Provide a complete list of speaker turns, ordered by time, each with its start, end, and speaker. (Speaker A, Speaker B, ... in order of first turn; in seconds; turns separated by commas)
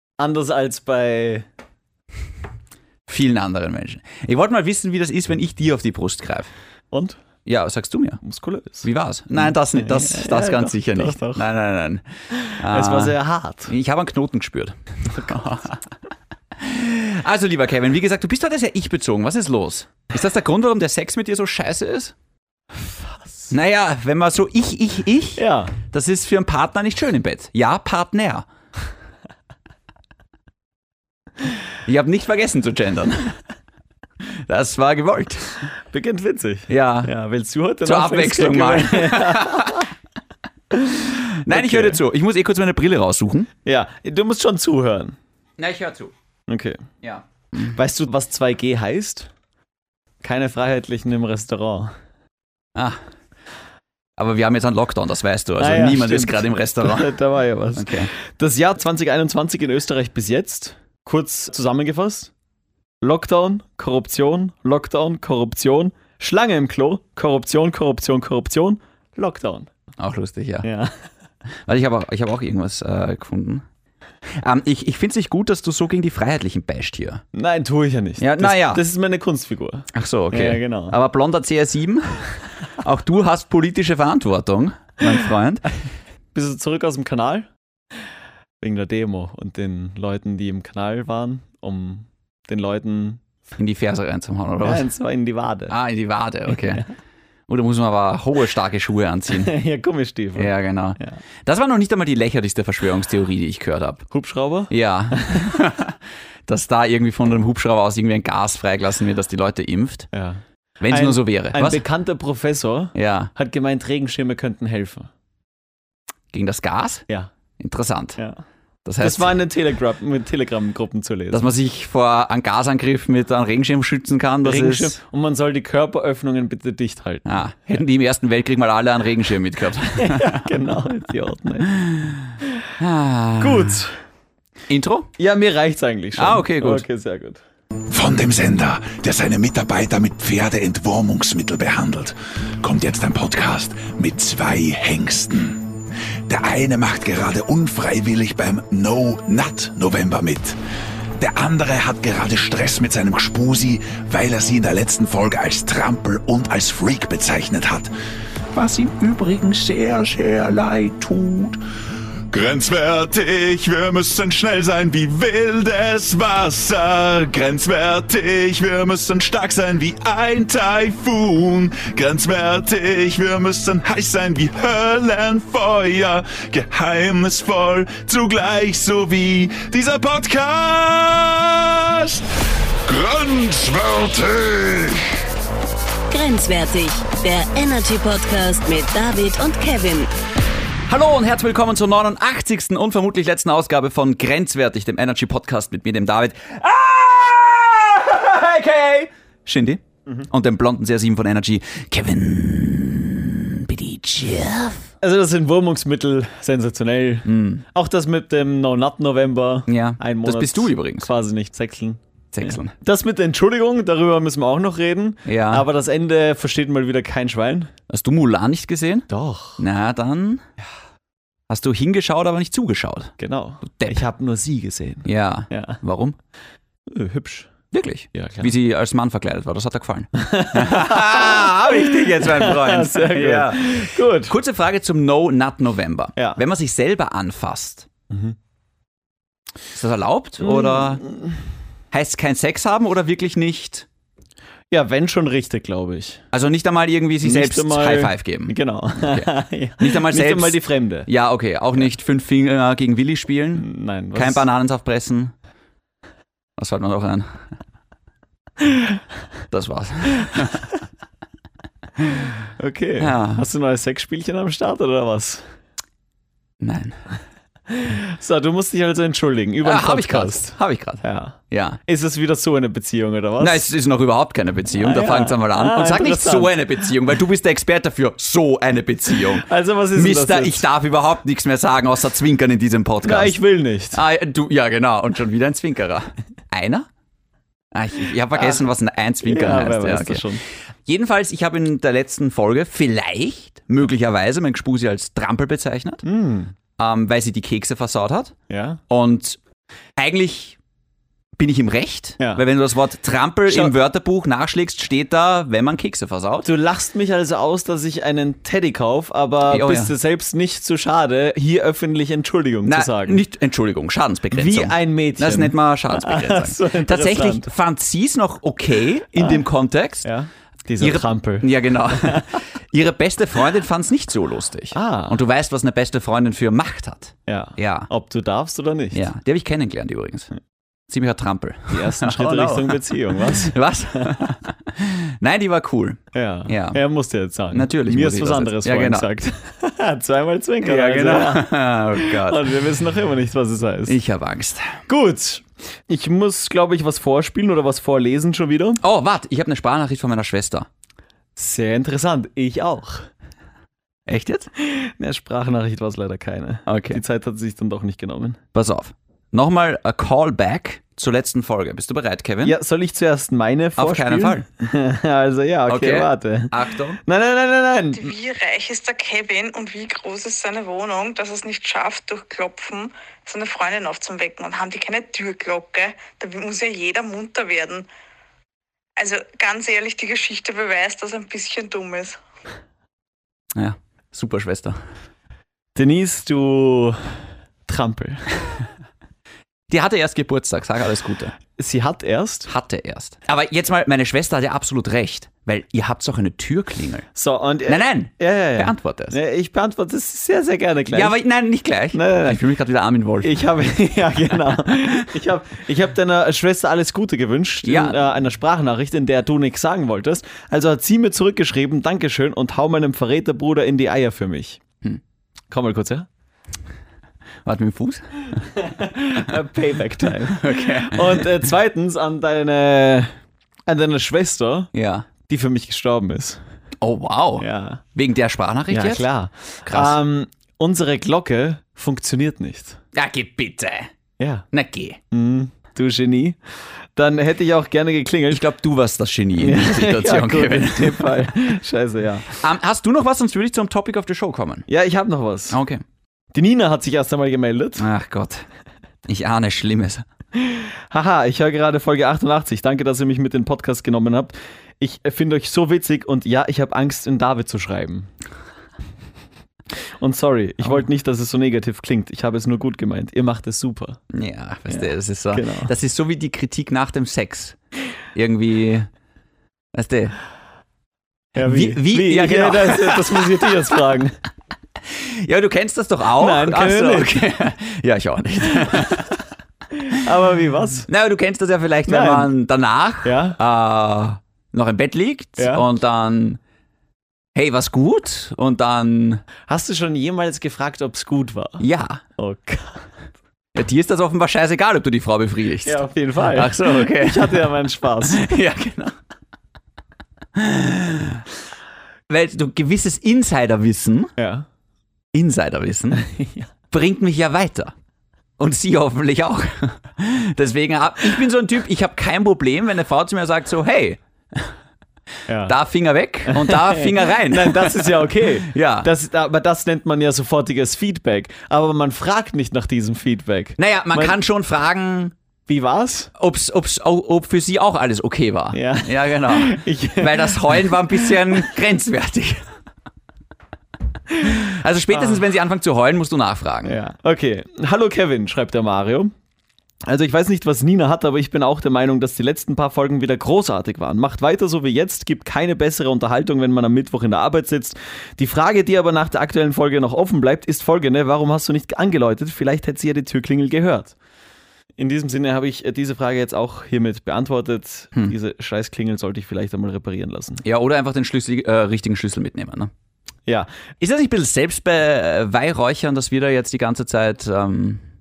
Speaker A: 0.2-1.4, Speaker B: 3.1-6.5, Speaker A: 6.9-7.2, Speaker B: 7.5-8.2, Speaker A: 8.2-8.8, Speaker B: 8.8-15.8, Speaker A: 9.7-11.5, Speaker A: 12.4-13.7, Speaker B: 16.6-22.1, Speaker A: 22.9-23.5, Speaker B: 23.5-28.5, Speaker A: 25.4-25.7, Speaker B: 31.9-33.4, Speaker B: 34.5-35.7, Speaker A: 35.9-39.9, Speaker B: 36.7-37.1, Speaker B: 37.8-39.9, Speaker A: 40.7-42.0, Speaker B: 41.0-43.5, Speaker A: 43.6-45.2, Speaker B: 45.6-46.1, Speaker A: 46.5-46.8, Speaker B: 47.0-47.8, Speaker A: 47.7-49.3, Speaker A: 50.2-51.9, Speaker B: 54.2-57.2, Speaker A: 55.6-62.3, Speaker B: 57.7-58.1, Speaker A: 63.0-69.7, Speaker B: 70.0-70.7, Speaker A: 70.6-70.9, Speaker B: 71.7-73.6, Speaker B: 74.4-77.2, Speaker A: 77.3-81.0, Speaker B: 78.2-78.8, Speaker B: 79.9-85.7, Speaker A: 86.3-87.5, Speaker A: 88.6-93.2, Speaker B: 93.6-94.9, Speaker A: 94.6-95.8, Speaker B: 95.7-96.8, Speaker A: 96.5-96.8, Speaker B: 97.5-99.5, Speaker A: 99.3-101.2, Speaker B: 100.4-104.0, Speaker A: 104.1-105.5, Speaker B: 104.7-110.1, Speaker A: 110.1-115.1, Speaker B: 110.8-111.8, Speaker B: 113.0-113.3, Speaker B: 116.3-117.1, Speaker B: 117.6-118.2, Speaker B: 118.8-119.4, Speaker A: 119.0-121.5, Speaker B: 121.3-125.0, Speaker A: 124.4-127.3, Speaker B: 127.2-130.5, Speaker A: 129.9-131.8, Speaker B: 131.8-133.8, Speaker A: 133.4-134.0, Speaker B: 134.7-135.1, Speaker A: 135.2-137.4, Speaker B: 136.2-136.9, Speaker C: 137.9-145.7, Speaker C: 146.3-150.6, Speaker C: 151.2-157.9, Speaker C: 158.5-161.6, Speaker C: 162.3-182.3, Speaker C: 182.9-185.2, Speaker D: 186.1-190.1, Speaker B: 190.9-204.9, Speaker A: 205.0-217.7, Speaker B: 207.2-207.6, Speaker B: 209.7-211.1, Speaker B: 212.3-212.7, Speaker B: 215.2-215.7, Speaker B: 217.9-220.4, Speaker A: 219.1-219.6, Speaker B: 221.5-224.0, Speaker A: 223.2-225.8, Speaker B: 225.1-226.2, Speaker A: 226.9-227.5, Speaker B: 227.7-237.9, Speaker A: 228.1-228.5, Speaker A: 230.2-234.3, Speaker A: 238.1-238.4, Speaker B: 239.8-241.0, Speaker A: 240.4-241.4, Speaker B: 241.9-243.9, Speaker A: 244.7-246.2, Speaker B: 246.3-255.3, Speaker A: 247.2-251.1, Speaker A: 253.6-254.4, Speaker B: 256.6-257.4, Speaker B: 259.5-260.7, Speaker A: 262.6-265.5, Speaker B: 263.0-263.5, Speaker B: 266.6-267.0, Speaker A: 267.7-273.6, Speaker B: 269.6-271.8, Speaker B: 273.4-283.4, Speaker A: 274.8-276.6, Speaker A: 279.3-280.7, Speaker A: 283.0-284.0, Speaker B: 283.9-286.9, Speaker B: 287.7-290.2, Speaker A: 288.3-288.7, Speaker A: 289.2-290.4, Speaker B: 290.9-296.0, Speaker A: 296.0-296.5, Speaker B: 296.8-298.4, Speaker A: 298.5-298.8, Speaker B: 298.9-299.4, Speaker B: 300.0-300.6, Speaker B: 301.4-306.5, Speaker A: 303.5-303.8, Speaker A: 306.4-313.2, Speaker B: 309.4-309.9, Speaker B: 312.6-320.1, Speaker A: 314.3-317.5, Speaker A: 319.1-319.4, Speaker A: 320.0-322.4, Speaker B: 320.8-327.9, Speaker A: 324.7-325.2, Speaker A: 327.3-329.1, Speaker B: 328.9-330.3, Speaker B: 330.9-336.8, Speaker A: 331.7-334.1, Speaker A: 336.1-344.0, Speaker B: 337.5-339.1, Speaker B: 340.6-342.5, Speaker B: 343.9-344.8, Speaker A: 344.9-348.8, Speaker B: 348.8-350.7, Speaker A: 351.4-353.1, Speaker B: 354.1-354.5, Speaker A: 354.6-358.4, Speaker B: 356.7-357.0, Speaker B: 358.5-362.6, Speaker A: 362.4-368.2, Speaker B: 363.8-364.4, Speaker B: 365.7-367.0, Speaker E: 368.0-377.9, Speaker E: 379.0-382.2, Speaker B: 383.6-384.8, Speaker A: 385.8-388.3, Speaker B: 389.7-391.4, Speaker A: 391.6-392.5, Speaker B: 392.5-397.1, Speaker A: 397.1-401.2, Speaker B: 397.7-399.2, Speaker B: 400.9-403.4, Speaker A: 401.9-402.4, Speaker A: 403.2-414.6, Speaker B: 407.6-408.0, Speaker A: 415.5-416.1, Speaker B: 417.4-418.4, Speaker A: 418.5-423.1, Speaker B: 420.3-421.3, Speaker A: 423.7-426.4, Speaker B: 424.7-425.1, Speaker B: 426.8-429.1, Speaker A: 427.4-427.8, Speaker A: 428.7-432.8, Speaker B: 429.6-430.0, Speaker B: 432.9-433.9, Speaker A: 434.2-434.5, Speaker B: 434.5-435.0, Speaker A: 435.1-436.4, Speaker A: 437.0-438.5, Speaker B: 438.3-441.3, Speaker A: 439.4-442.4, Speaker B: 442.4-444.7, Speaker A: 444.7-445.6, Speaker B: 445.5-445.8, Speaker A: 446.3-447.9, Speaker B: 447.8-448.5, Speaker B: 449.1-450.1, Speaker A: 450.4-458.1, Speaker A: 460.0-464.0, Speaker B: 464.1-467.6, Speaker A: 464.7-465.7, Speaker B: 468.1-468.9, Speaker B: 469.7-470.2, Speaker B: 471.4-473.5, Speaker A: 471.4-474.2, Speaker B: 474.9-479.2, Speaker A: 476.2-477.2, Speaker A: 479.9-480.9, Speaker B: 480.9-486.4, Speaker A: 481.9-482.3, Speaker A: 483.0-483.4, Speaker A: 485.4-485.7, Speaker B: 487.4-489.2, Speaker A: 489.5-491.6, Speaker B: 491.6-492.0, Speaker A: 492.2-492.9, Speaker B: 493.6-499.0, Speaker A: 495.6-498.3, Speaker B: 500.4-501.2, Speaker B: 502.1-504.1, Speaker A: 504.2-504.5, Speaker B: 505.1-506.1, Speaker A: 506.0-506.5, Speaker B: 506.7-507.7, Speaker B: 508.4-514.5, Speaker A: 515.3-515.5, Speaker B: 515.5-518.9, Speaker A: 516.2-524.2, Speaker B: 523.6-525.1, Speaker A: 525.5-526.1, Speaker B: 526.2-532.4, Speaker A: 528.5-531.5, Speaker B: 534.2-536.8, Speaker A: 534.9-535.2, Speaker A: 536.6-539.1, Speaker A: 539.8-553.9, Speaker A: 554.8-560.4, Speaker B: 560.4-562.7, Speaker B: 563.8-567.8